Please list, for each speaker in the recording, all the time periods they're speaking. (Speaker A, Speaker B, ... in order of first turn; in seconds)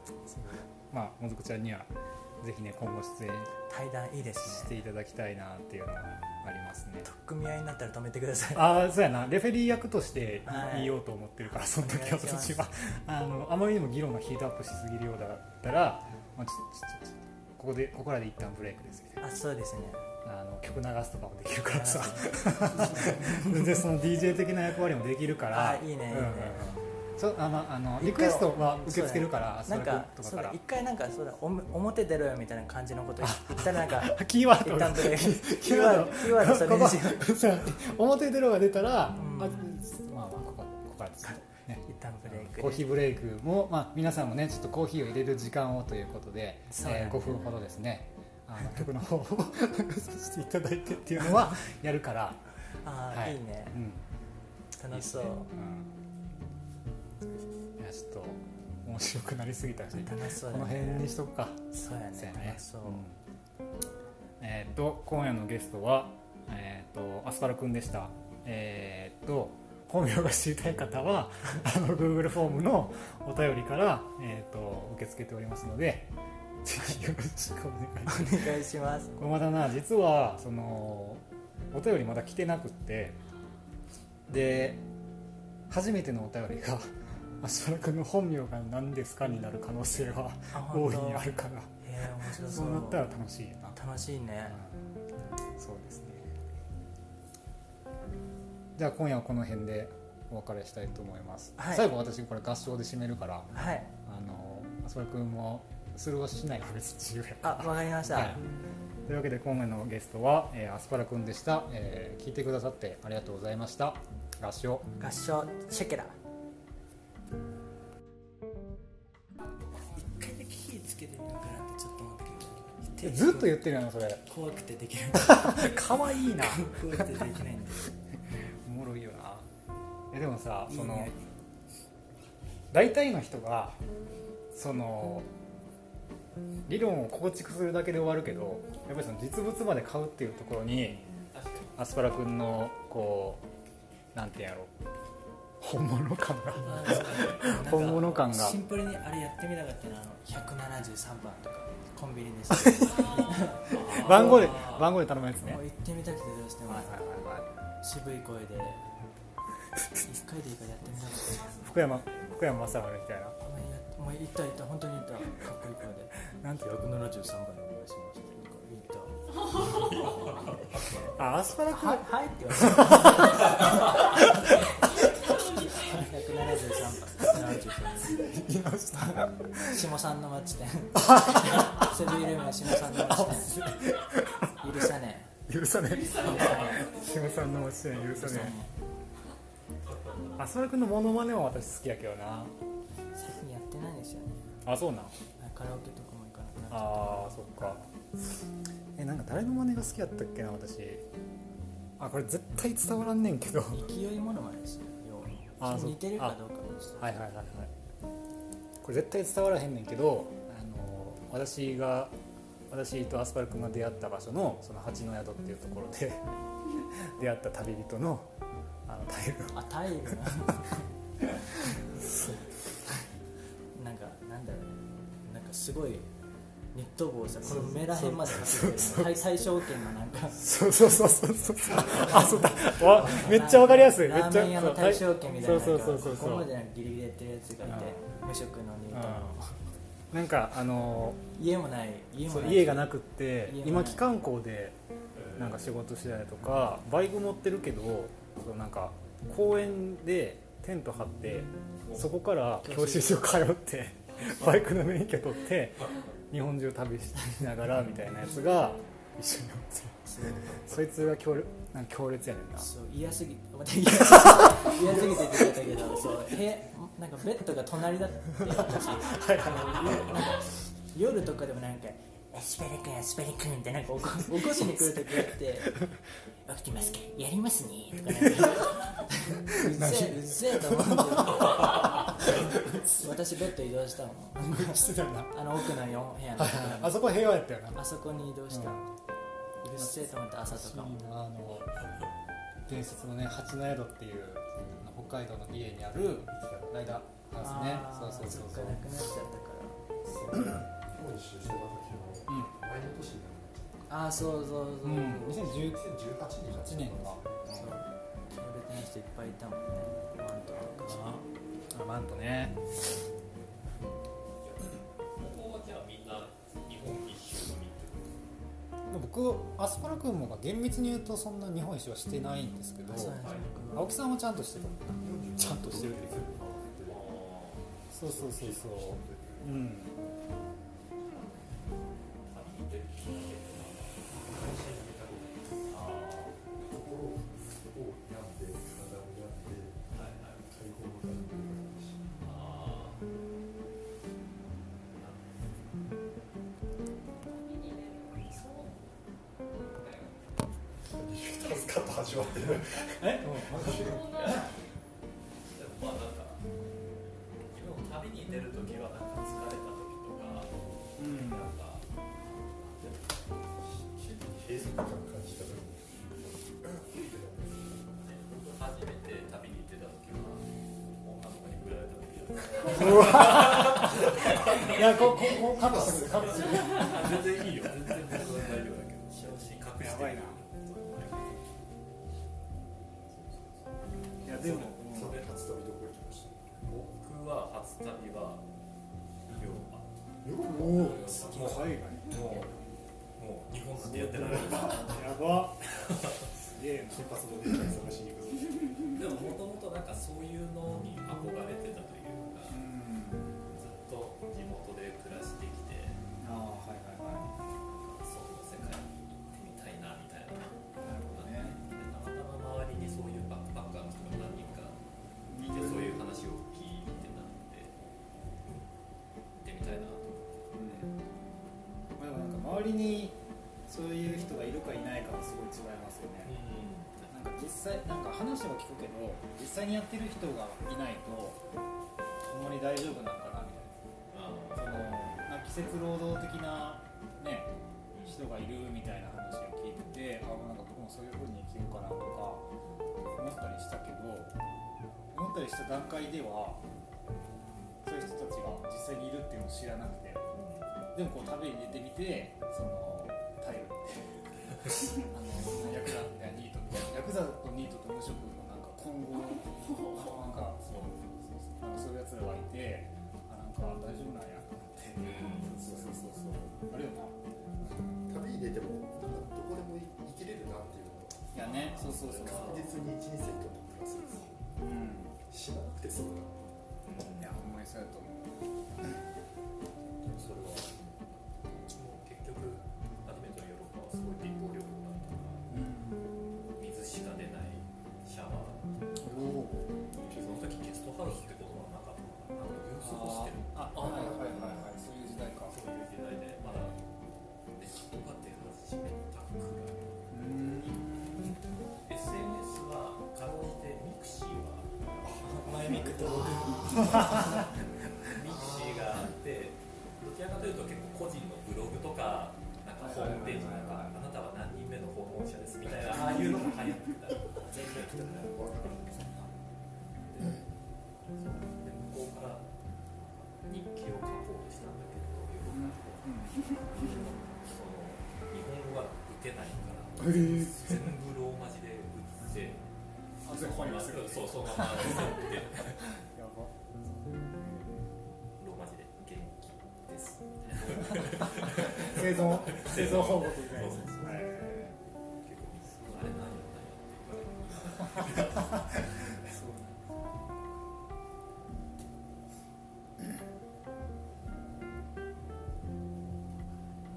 Speaker A: 0.2-3.5, 4.4-7.1, 8.5-19.2, 20.2-30.6, 33.2-52.4, 53.1-54.0, 54.9-55.9, 57.8-63.2, 64.4-78.6, 79.2-83.2, 84.3-84.8, 85.7-93.8, 94.5-94.8, 95.5-96.4, 98.8-108.4, 109.0-114.9, 123.0-124.2, 125.1-127.4, 128.3-129.5, 130.1-131.1, 132.7-133.8, 134.5-135.3, 136.7-141.0, 141.8-143.4, 144.1-144.7, 145.6-148.6, 152.5-155.6, 156.7-157.5, 161.5-163.4, 166.4-166.8, 171.1-176.0, 177.2-179.8, 180.9-182.1, 182.7-184.9, 185.5-188.6, 190.4-192.5, 194.6-195.1, 196.7-197.9, 198.9-201.0, 202.0-203.9, 205.6-206.4, 207.0-207.7, 208.8-212.1, 212.7-216.2, 216.8-218.3, 218.8-219.6, 221.8-222.5, 227.5-229.5, 230.3-236.5, 237.6-238.0, 238.9-239.3, 240.1-241.2, 242.2-244.8, 245.3-262.7, 264.1-265.4, 268.4-270.4, 274.3-275.9, 278.2-278.7, 279.5-283.1, 284.4-285.7, 286.4-287.9, 288.5-288.8, 289.8-291.7, 292.7-298.9, 302.3-302.5, 304.8-305.8, 306.5-307.8, 310.8-312.6, 318.9-323.2, 323.7-326.1, 327.9-330.0, 353.0-354.4, 361.0-361.5, 372.7-376.9, 379.7-380.4, 384.2-385.2, 390.4-392.5, 394.2-397.2, 402.5-403.4, 406.2-407.3, 410.8-411.6, 415.3-416.1, 420.5-420.9, 422.0-426.3, 427.1-431.4, 432.2-433.7, 434.5-437.5, 438.0-442.5, 443.1-444.3, 445.1-446.6, 447.8-450.2, 450.9-468.0, 471.3-472.7, 474.6-475.2, 477.0-479.0, 485.5-486.1, 489.0-489.7, 492.7-495.6, 500.1-501.4, 505.5-508.9, 512.8-514.0, 516.0-516.4, 525.5-527.0, 530.0-530.9, 533.2-537.9, 540.7-544.7, 547.8-549.9
Speaker B: 3.7-4.8, 7.0-8.8, 10.4-11.0, 11.5-12.7, 19.2-20.0, 21.7-23.8, 25.5-26.6, 28.0-37.3, 39.1-39.7, 41.2-42.9, 46.7-47.5, 52.8-53.8, 54.8-55.5, 60.0-61.1, 61.7-63.0, 78.0-79.2, 90.5-93.1, 93.7-94.6, 101.6-101.9, 103.5-103.9, 107.4-108.4, 115.0-116.1, 119.9-123.6, 124.2-127.9, 130.7-131.2, 146.6-154.7, 155.4-157.0, 157.8-158.8, 160.0-161.6, 163.4-171.1, 171.7-178.3, 178.9-183.7, 184.6-185.3, 188.0-188.7, 193.1-194.4, 195.4-197.8, 203.7-207.2, 219.5-220.8, 221.8-222.1, 223.7-226.1, 226.7-230.5, 231.7-239.6, 241.3-244.1, 252.6-253.4, 260.1-260.7, 262.5-275.8, 276.4-287.1, 287.7-288.9, 289.6-290.9, 297.4-299.8, 303.9-305.5, 307.5-311.2, 322.8-323.9, 391.0-391.8, 505.2-507.5
Speaker C: 119.5-119.9, 152.8-153.5, 169.5-169.8, 175.1-176.0, 185.9-187.6, 347.1-348.9, 353.8-354.5, 459.4-460.2
Speaker D: 141.1-141.8, 146.6-148.0, 153.7-154.9, 169.8-171.0, 189.8-190.4, 233.0-233.2, 245.2-245.6, 251.8-252.1, 254.1-254.6, 314.4-318.2, 323.1-323.5, 326.8-327.7, 331.1-331.6, 332.2-336.4, 339.9-340.5, 342.2-343.0, 344.9-345.2, 349.8-350.1, 353.7-354.5, 355.5-356.4, 357.5-363.0, 368.0-370.5, 371.0-381.4, 384.2-384.7, 386.6-388.4, 389.3-389.9, 390.4-392.6, 393.1-395.2, 395.9-396.3, 398.9-402.6, 403.5-406.0, 407.6-414.8, 415.4-417.7, 419.4-420.9, 426.2-427.2, 434.1-434.9, 437.9-438.2, 450.3-450.7, 465.0-465.5, 471.4-472.8, 476.8-477.4, 480.1-485.4, 486.6-489.3, 489.9-494.7, 495.2-496.8, 497.5-500.6, 501.9-505.2, 508.1-518.7, 520.1-520.5, 521.1-522.5, 523.3-532.7, 533.2-535.9, 538.4-549.2
Speaker E: 296.3-296.8, 300.0-303.9, 305.5-307.5, 325.0-327.1, 327.9-330.1, 334.5-334.8, 336.6-339.9, 340.4-342.2, 350.8-354.1, 363.6-368.0, 373.8-377.5, 383.1-383.7, 384.2-386.6, 390.2-391.1, 393.8-395.1, 396.9-399.3, 465.4-466.5, 468.0-471.4, 471.9-474.5, 475.3-476.4, 490.0-490.6, 493.7-494.6, 517.6-519.3